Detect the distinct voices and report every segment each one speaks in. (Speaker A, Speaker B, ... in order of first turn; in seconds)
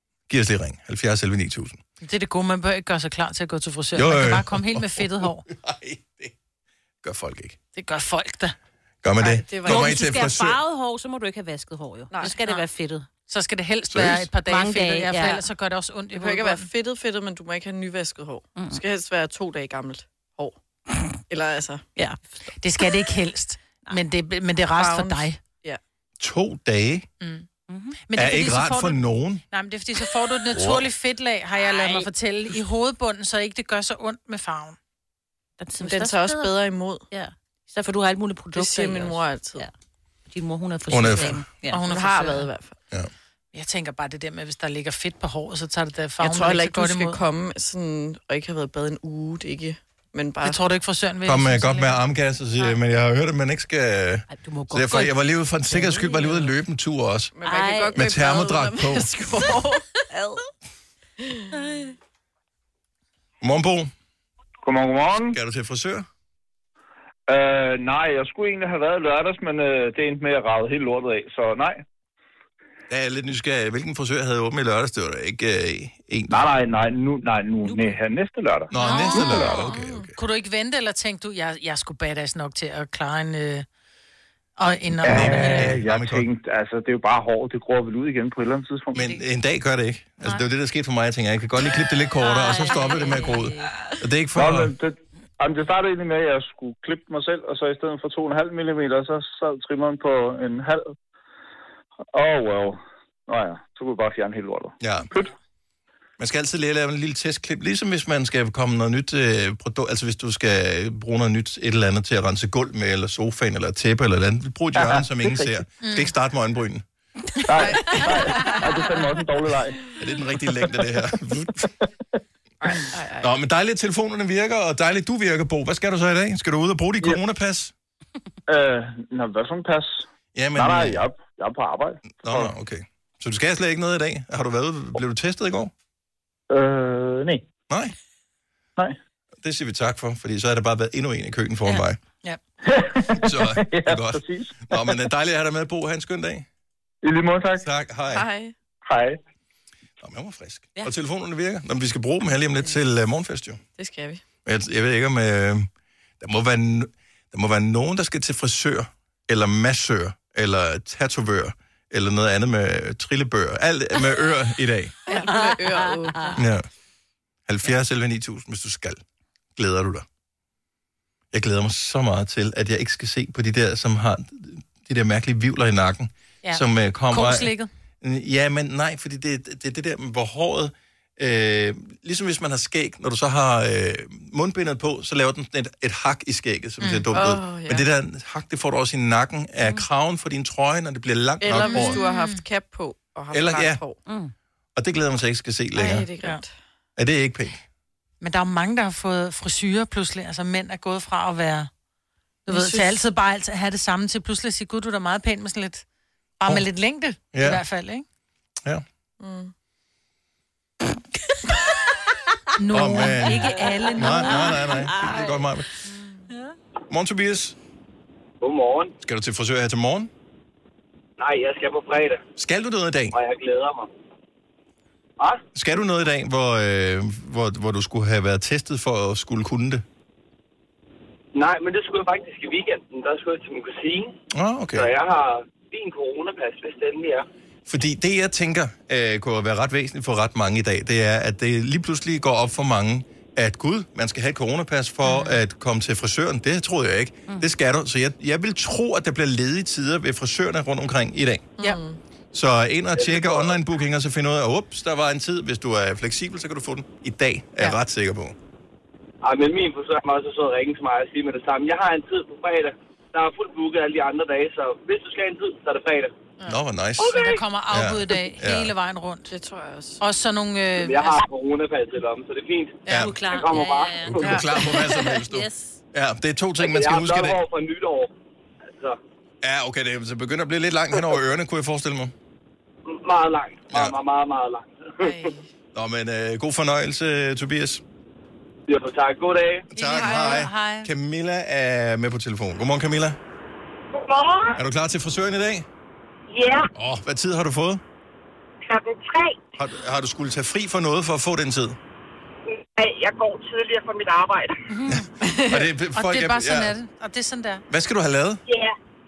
Speaker A: 0.3-1.8, 3.9-6.3, 7.0-7.6, 9.0-10.6, 13.9-14.3, 26.2-27.1, 28.1-29.4, 30.5-30.9, 40.9-41.4, 51.3-57.3, 57.9-59.1, 63.4-63.9, 65.3-66.1, 72.9-76.4, 78.7-80.1, 85.1-86.3, 88.9-94.7, 104.8-105.1, 106.2-116.8, 120.0-121.7, 123.2-127.7, 130.3-131.0, 132.2-135.7, 139.4-142.0, 143.2-146.4, 147.6-148.3, 150.0-153.6, 154.4-155.7, 156.2-164.9, 166.4-166.6, 167.5-169.0, 169.6-170.1, 171.3-192.0, 193.3-193.8, 194.8-196.1, 197.0-197.6, 207.3-207.6, 212.7-215.7, 216.9-217.6, 219.0-220.1, 222.4-223.2, 225.5-229.8, 234.3-234.9, 237.7-251.5, 252.3-258.4, 266.5-268.7, 272.9-273.2, 274.1-277.4, 279.4-282.1, 283.7-284.0, 285.7-287.8, 289.7-293.2, 294.6-295.6, 296.8-297.8, 299.6-301.8, 305.5-306.7, 307.7-308.4
Speaker B: 2.0-5.4, 7.8-8.6, 12.2-12.6, 13.3-16.7, 22.6-25.4, 27.2-27.5, 28.1-29.0, 29.5-34.8, 41.7-42.5, 43.5-47.2, 50.4-52.0, 78.8-79.6, 80.2-83.7, 84.6-85.8, 115.8-116.1, 117.6-118.6, 176.4-177.7, 186.8-187.1, 191.6-192.4, 195.8-196.4, 198.2-201.7, 202.5-205.8, 206.4-208.1, 212.6-214.7, 245.1-245.4, 266.4-269.3, 270.0-271.2, 289.8-290.9, 304.7-305.1, 305.9-307.6
Speaker C: 9.2-10.2, 12.1-12.4, 16.1-20.6, 21.3-21.9, 24.8-25.8, 35.8-37.0, 38.5-39.7, 41.8-42.8, 46.2-50.6, 57.4-59.8, 61.2-61.5, 79.2-80.1, 117.8-118.6, 122.6-123.3, 148.1-148.5, 153.8-154.2, 165.1-166.3, 187.1-187.9, 191.4-194.0, 195.8-196.5, 202.5-203.0, 209.2-209.5, 251.6-252.0, 269.3-270.0, 274.3-275.0, 285.0-285.5, 289.9-290.4, 305.2-305.6
Speaker D: 9.6-13.1, 14.5-15.4, 27.7-28.0, 31.6-32.1, 35.6-36.5, 37.1-39.7, 40.3-41.8, 54.3-55.2, 55.7-56.5, 57.4-58.0, 60.1-60.4, 61.5-61.9, 78.8-79.6, 92.2-93.7, 165.2-166.3, 194.1-194.3, 213.7-215.4, 272.9-275.8
Speaker E: 64.6-65.4, 67.3-71.8, 76.3-78.7, 85.0-89.0, 94.4-100.9, 102.1-105.3, 114.8-115.5, 117.5-119.8, 120.7-120.9, 128.5-132.5, 136.5-137.5, 142.7-144.9, 147.0-147.7, 148.8-149.2
Speaker F: 218.4-218.9, 221.2-222.2, 223.1-223.9, 231.3-234.2, 234.7-237.3, 253.0-253.6, 259.2-266.1, 270.8-274.1, 276.6-278.1, 282.9-285.2, 288.7-289.7
Speaker G: 293.9-294.6, 296.3-296.7, 298.6-299.4, 302.5-304.6, 308.5-308.8